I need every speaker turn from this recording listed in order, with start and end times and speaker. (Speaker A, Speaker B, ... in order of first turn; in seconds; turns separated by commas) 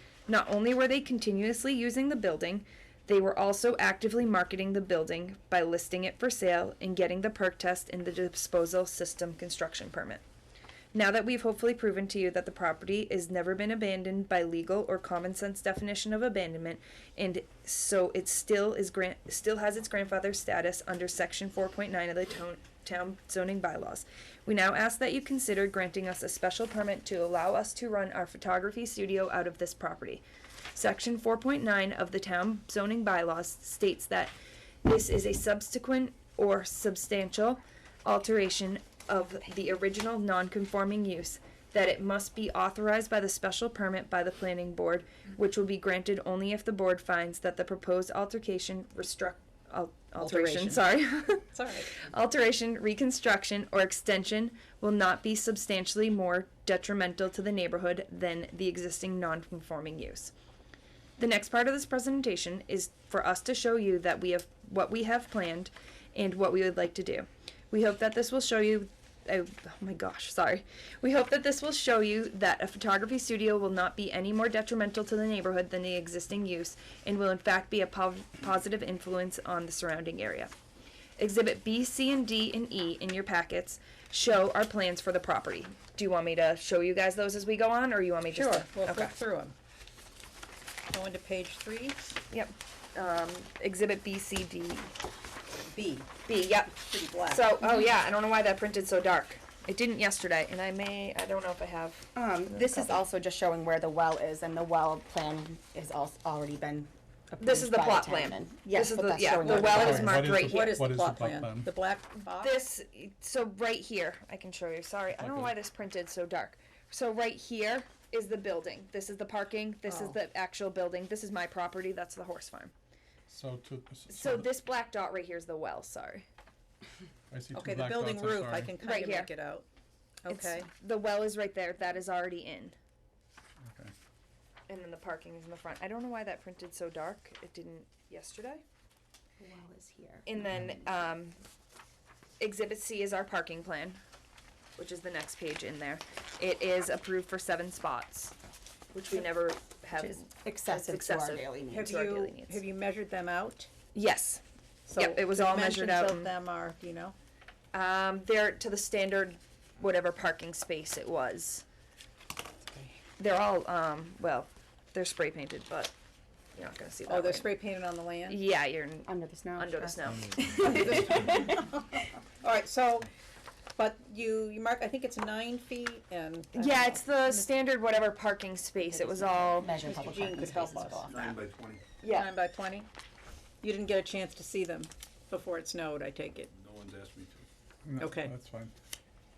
Speaker A: 0.3-10.2, Speaker A: 10.9-30.2, Speaker A: 30.8-34.3, Speaker A: 34.9-60.3, Speaker B: 50.2-50.9, Speaker B: 51.5-51.9, Speaker A: 61.2-80.5, Speaker A: 81.2-89.1, Speaker B: 88.3-89.5, Speaker B: 90.9-92.0, Speaker A: 92.3-94.9, Speaker B: 95.7-96.1, Speaker A: 96.3-103.0, Speaker B: 96.7-97.7, Speaker C: 102.2-110.2, Speaker A: 107.4-110.8, Speaker B: 109.3-112.6, Speaker D: 109.7-111.7, Speaker A: 112.3-122.7, Speaker D: 115.2-115.5, Speaker B: 119.9-120.2, Speaker D: 123.3-124.5, Speaker A: 124.1-126.2, Speaker D: 127.3-128.7, Speaker B: 127.5-129.7, Speaker A: 128.8-129.3, Speaker B: 130.2-130.7, Speaker A: 130.3-132.8, Speaker D: 133.6-133.9, Speaker A: 134.7-138.6, Speaker C: 139.4-140.7, Speaker A: 140.3-141.4, Speaker A: 142.4-144.0, Speaker A: 144.8-148.3, Speaker A: 148.9-152.7, Speaker C: 150.0-152.0, Speaker B: 151.7-153.7, Speaker A: 153.9-154.4, Speaker B: 154.9-157.2, Speaker A: 155.0-156.3, Speaker A: 157.7-161.7, Speaker B: 162.7-163.0, Speaker A: 163.2-165.9, Speaker A: 166.6-167.5, Speaker B: 167.1-168.4, Speaker A: 168.3-171.1, Speaker C: 169.1-171.6, Speaker B: 170.6-173.1, Speaker E: 170.9-171.3, Speaker B: 173.8-177.5, Speaker A: 176.5-179.7, Speaker C: 178.9-181.4, Speaker B: 179.7-181.3, Speaker E: 181.0-181.8, Speaker A: 182.0-182.3, Speaker B: 182.1-182.9, Speaker B: 183.6-186.5, Speaker E: 186.5-187.4, Speaker D: 187.8-188.7, Speaker B: 188.0-188.3